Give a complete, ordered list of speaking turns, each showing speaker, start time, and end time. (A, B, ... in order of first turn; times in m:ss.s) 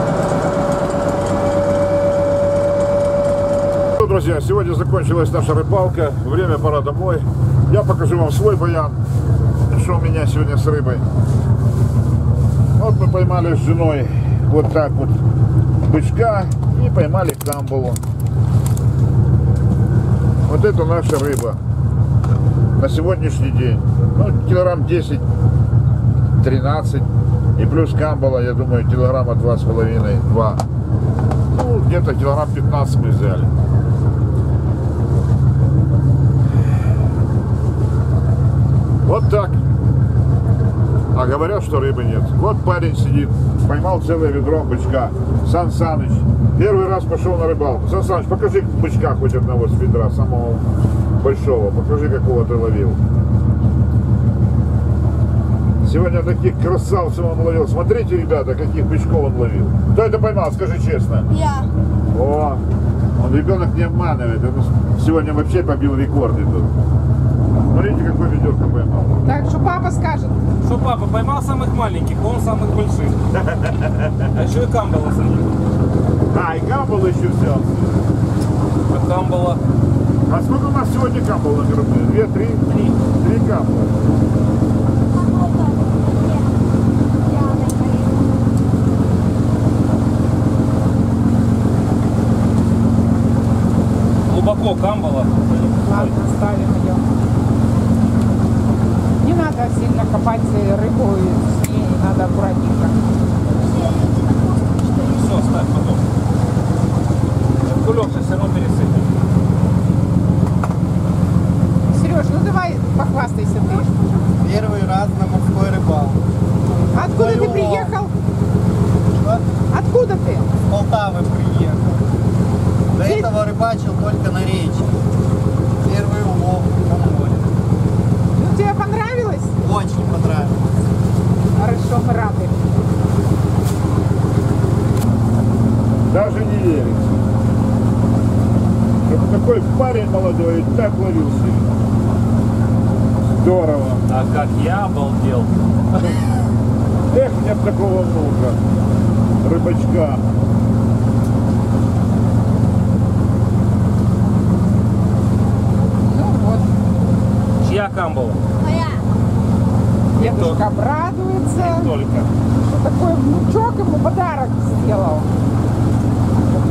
0:04.0-0:09.0 A
0:09.7-0:11.1 A
0:12.8-0:15.2 A
0:15.8-0:18.0 A
0:20.5-0:21.6 A
0:22.8-0:25.2 A
0:26.4-0:30.6 A
0:31.5-0:33.5 A
0:39.0-0:39.6 A
0:41.1-0:50.7 A
0:51.2-0:53.0 A
0:55.8-1:01.3 A
1:01.3-1:01.7 B
1:02.1-1:02.6 A
1:03.2-1:06.7 A
1:07.7-1:09.2 A
1:09.2-1:10.4 C
1:10.6-1:13.3 D
1:13.4-1:14.2 A
1:14.3-1:15.6 D
1:16.3-1:18.0 A
1:18.9-1:19.6 D
1:20.3-1:24.0 A
1:22.7-1:22.9 D
1:25.1-1:26.5 B
1:27.2-1:28.4 B
1:34.3-1:36.2 D
1:35.8-1:37.1 C
1:39.2-1:43.0 C
1:43.6-1:45.5 B
1:45.0-1:46.0 D
1:47.6-1:49.1 D
1:51.9-1:53.9 C
1:54.4-1:56.2 E
1:56.9-1:58.1 C
1:57.2-1:57.9 E
1:59.1-1:59.4 E
1:59.7-2:00.5 C
2:00.7-2:02.1 E
2:02.9-2:04.9 E
2:03.0-2:03.3 C
2:05.8-2:07.4 E
2:08.3-2:09.6 C
2:09.6-2:10.6 E
2:11.5-2:12.6 C
2:16.1-2:17.1 A
2:19.0-2:21.7 A
2:23.3-2:24.1 A
2:24.1-2:26.1 D
2:27.1-2:28.6 A
2:29.4-2:30.3 A
2:36.0-2:36.7 C
2:37.6-2:38.4 D
2:38.6-2:39.0 B
2:40.1-2:40.7 D
2:40.2-2:41.9 C
2:41.5-2:42.3 D
2:42.6-2:45.3 C